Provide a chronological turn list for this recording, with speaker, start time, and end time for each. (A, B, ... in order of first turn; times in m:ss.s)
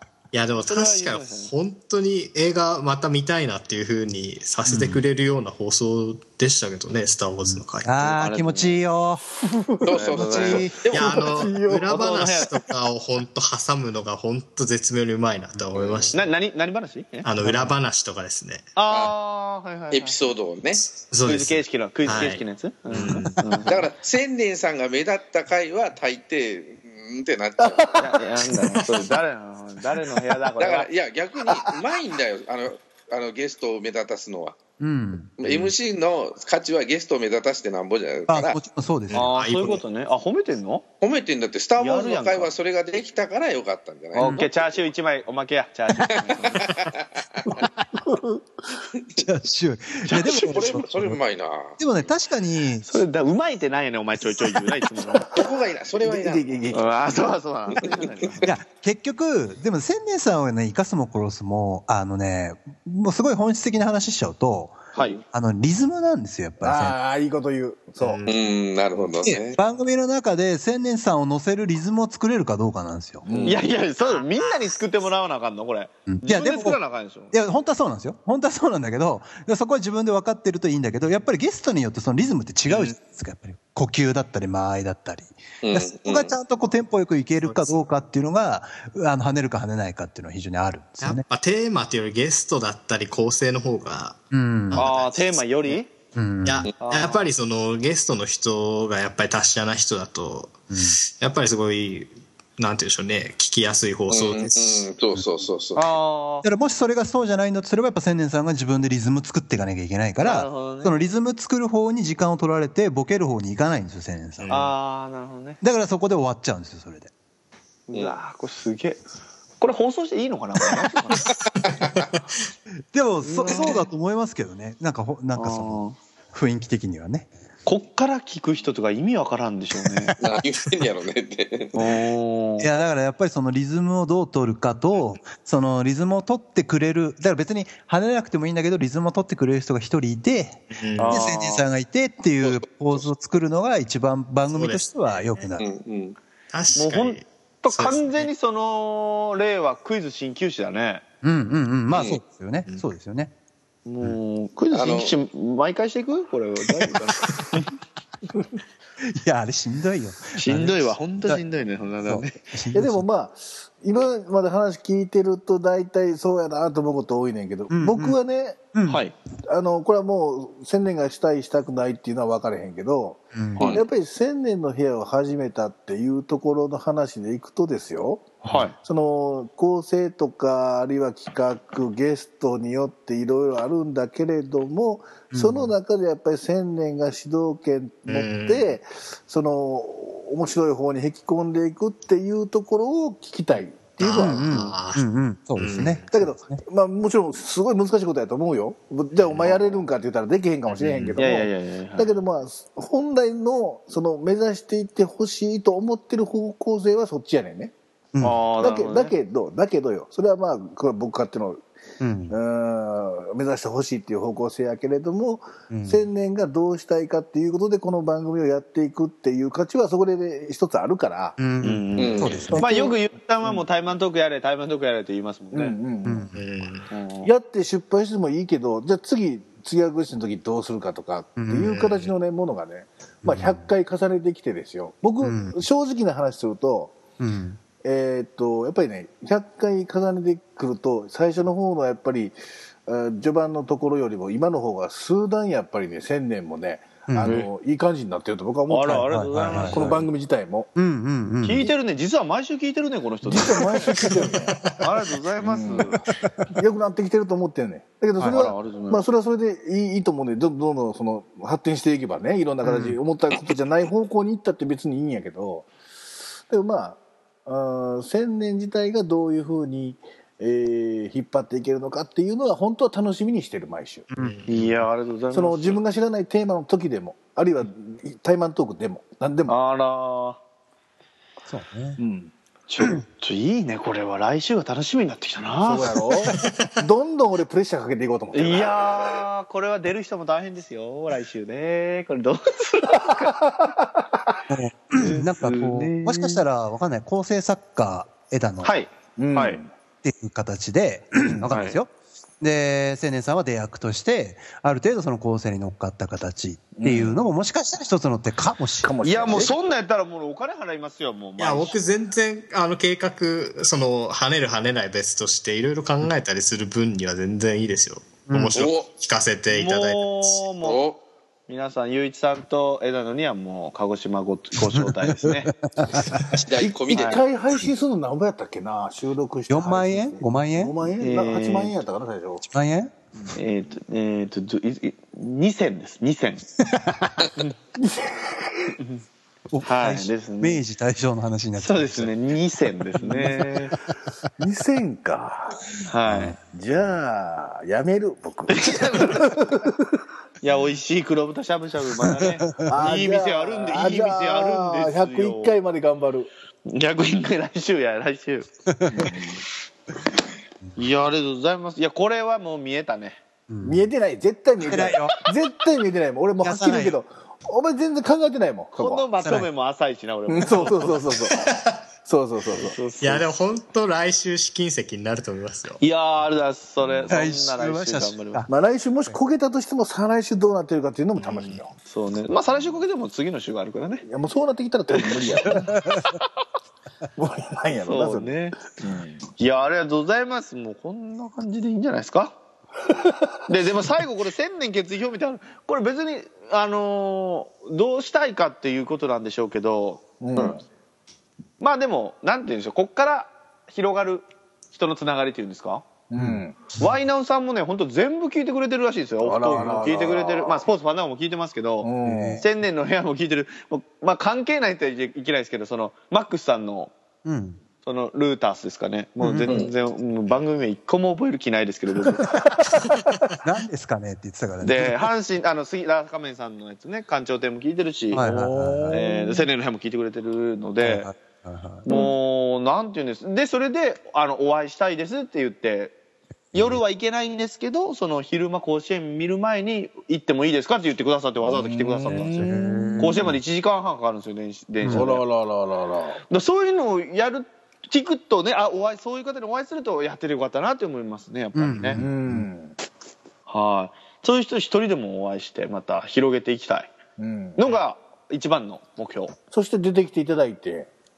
0:00.3-0:08.2 A
0:00.7-0:01.5 B
0:04.7-0:05.0 C
0:07.4-0:09.2 C
0:08.1-0:08.8 B
0:09.6-0:12.1 D
0:09.8-0:11.2 E
0:09.9-0:10.8 B
0:10.9-0:16.2 A
0:11.9-0:12.5 B
0:15.7-0:16.2 E
0:16.1-0:17.3 B
0:17.2-0:18.7 A
0:17.4-0:17.7 C
0:18.8-0:20.2 B
0:18.9-0:19.1 E
0:19.9-0:20.9 E
0:20.9-0:23.4 A
0:21.2-0:23.9 B
0:23.6-0:28.1 E
0:27.6-0:28.0 D
0:28.0-0:30.9 B
0:30.6-0:34.6 E
0:34.8-0:35.3 C
0:35.4-0:38.6 E
0:35.4-0:35.7 A
0:38.3-0:39.3 C
0:39.1-0:39.8 A
0:39.1-0:40.8 B
0:41.0-0:44.8 E
0:41.8-0:42.5 B
0:44.1-0:46.8 B
0:44.2-0:44.4 C
0:46.1-0:47.6 E
0:47.5-0:48.4 D
0:49.2-0:51.2 C
0:50.0-0:50.8 B
0:50.3-0:51.8 E
0:51.8-0:52.9 C
0:52.9-0:55.3 B
0:55.2-0:56.5 E
0:56.0-0:56.9 D
0:56.7-0:58.6 B
0:58.4-1:04.8 C
1:04.9-1:05.2 B
1:05.3-1:07.0 C
1:06.6-1:08.2 D
1:08.0-1:08.4 A
1:08.2-1:09.6 E
1:09.2-1:13.3 C
1:13.2-1:13.7 D
1:13.3-1:13.6 E
1:13.4-1:17.3 B
1:16.1-1:16.8 C
1:17.3-1:31.2 C
1:22.7-1:23.0 A
1:25.6-1:26.3 E
1:27.4-1:27.8 A
1:31.0-1:35.7 A
1:34.3-1:34.8 C
1:34.7-1:35.9 B
1:36.1-1:36.7 C
1:36.4-1:44.9 A
1:36.8-1:37.3 B
1:40.7-1:41.0 C
1:44.1-1:45.9 E
1:45.8-1:46.5 B
1:46.4-1:54.7 C
1:50.2-1:50.9 B
1:54.4-1:54.7 A
1:54.5-1:55.6 B
1:55.6-1:57.1 C
1:57.9-1:59.0 B
1:59.6-2:01.3 B
2:02.9-2:07.3 C
2:03.2-2:03.8 B
2:05.4-2:06.0 B
2:07.6-2:10.1 B
2:09.9-2:10.4 C
2:10.2-2:11.9 E
2:11.7-2:12.7 B
2:12.6-2:25.6 C
2:20.7-2:21.3 A
2:21.0-2:21.7 B
2:24.5-2:25.2 A
2:25.6-2:26.2 E
2:26.5-2:28.3 A
2:26.8-2:31.0 B
2:31.2-2:33.3 C
2:31.9-2:32.2 E
2:33.9-2:37.7 B
2:34.7-2:35.1 E
2:39.0-2:41.4 C
2:40.4-2:42.5 B
2:42.0-2:43.0 C
2:42.7-2:48.7 D
2:47.7-2:48.2 C
2:48.7-2:49.0 C
2:48.9-2:49.1 B
2:49.5-3:14.5 D
2:53.3-2:53.7 C
2:58.4-2:58.7 C
2:58.5-2:58.7 B
3:05.3-3:05.7 C
3:08.1-3:08.7 A
3:14.0-3:15.0 A
3:14.2-3:16.6 C
3:15.6-3:16.0 A
3:16.1-3:27.7 D
3:19.3-3:19.6 A
3:20.7-3:21.2 A
3:21.2-3:22.1 B
3:28.2-3:29.1 B
3:28.6-3:31.7 D
3:32.0-3:32.4 C
3:32.3-3:41.4 D
3:35.7-3:36.1 C
3:41.4-3:42.6 C
3:41.6-3:45.8 B
3:42.0-3:42.5 E
3:42.2-3:42.6 A
3:42.4-3:43.6 D
3:45.5-3:46.3 D
3:46.0-3:46.4 C
3:46.3-3:46.9 A
3:46.9-3:47.3 B
3:47.2-3:57.0 D
3:51.4-3:51.7 C
3:51.6-3:52.1 A
3:53.2-3:53.7 C
3:55.2-3:55.6 C
3:57.2-3:57.6 C
3:57.8-4:10.7 D
4:07.1-4:07.4 C
4:07.2-4:07.5 B
4:08.7-4:10.0 B
4:08.9-4:10.0 C
4:10.8-4:11.7 C
4:11.4-4:14.1 B
4:13.2-4:14.6 D
4:14.2-4:14.8 A
4:14.8-4:16.0 B
4:15.4-4:25.7 D
4:18.2-4:18.4 C
4:18.2-4:19.0 B
4:22.6-4:23.0 C
4:26.5-4:34.1 D
4:34.1-4:34.7 C
4:34.2-4:34.7 A
4:34.5-4:35.8 B
4:35.3-4:39.5 D
4:39.5-4:40.4 B
4:41.5-4:42.0 C
4:42.0-4:42.3 D
4:42.7-4:46.0 B
4:45.6-4:48.9 D
4:48.3-4:53.4 B
4:53.0-4:54.0 D
4:54.5-4:58.7 C
4:55.0-4:56.4 B
4:58.6-4:59.6 B
4:59.2-4:59.7 D
5:00.0-5:01.9 C
5:01.5-5:01.8 B
5:02.4-5:08.9 C
5:06.8-5:07.1 D
5:08.8-5:09.5 D
5:09.0-5:11.8 B
5:11.4-5:20.4 A
5:18.3-5:18.7 C
5:18.5-5:18.9 E
5:19.5-5:20.8 B
5:20.6-5:21.0 E
5:21.5-5:25.5 B
5:24.6-5:26.3 C
5:26.2-5:27.3 E
5:26.6-5:32.4 D
5:26.9-5:27.2 B
5:29.5-5:30.8 C
5:31.0-5:31.7 B
5:32.4-5:32.9 C
5:33.3-5:36.4 B
5:36.7-5:37.1 C
5:37.8-5:38.7 D
5:39.5-5:42.1 C
5:39.6-5:40.6 B
5:41.6-5:43.7 B
5:43.0-5:43.7 C
5:44.4-5:45.6 D
5:45.9-5:46.4 B
5:46.1-5:46.4 C
5:46.4-5:50.0 D
5:48.5-5:49.3 B
5:50.4-5:55.5 B
5:52.0-5:52.7 C
5:52.6-5:56.3 D
5:56.7-5:58.5 B
5:58.7-5:59.1 C
5:58.9-5:59.4 D
6:00.8-6:03.2 B
6:03.5-6:03.9 C
6:03.6-6:09.0 D
6:04.6-6:05.2 C
6:06.4-6:07.0 C
6:08.7-6:11.1 B
6:09.2-6:09.5 C
6:10.3-6:11.5 D
6:11.4-6:11.8 A
6:12.0-6:12.8 D
6:12.6-6:13.3 B
6:13.0-6:15.8 A
6:15.8-6:18.4 B
6:17.1-6:18.5 C
6:18.5-6:21.7 D
6:21.8-6:24.0 B
6:24.1-6:25.9 D
6:25.6-6:26.1 C
6:27.2-6:29.3 D
6:27.8-6:28.6 B
6:29.4-6:32.4 B
6:32.9-6:33.2 D
6:33.5-6:40.0 B
6:40.2-6:40.6 D
6:41.6-6:45.9 B
6:46.1-6:46.6 D
6:46.2-6:46.4 C
6:46.7-6:56.9 B
6:49.2-6:50.7 D
6:51.8-6:52.4 D
6:52.0-6:52.4 C
6:57.2-6:57.6 C
6:57.8-7:02.3 B
6:59.2-6:59.6 C
6:59.5-6:59.7 E
7:03.4-7:05.1 C
7:04.6-7:11.1 B
7:08.1-7:09.0 C
7:08.2-7:09.5 D
7:10.8-7:11.8 C
7:11.8-7:15.9 B
7:16.5-7:16.8 C
7:16.5-7:25.2 B
7:21.4-7:23.3 D
7:22.3-7:23.3 C
7:24.8-7:25.1 C
7:24.9-7:26.2 D
7:26.3-7:32.0 B
7:31.6-7:32.5 C
7:32.0-7:32.7 D
7:33.5-7:36.9 B
7:37.2-7:37.6 D
7:37.6-7:39.3 B
7:39.5-7:40.9 D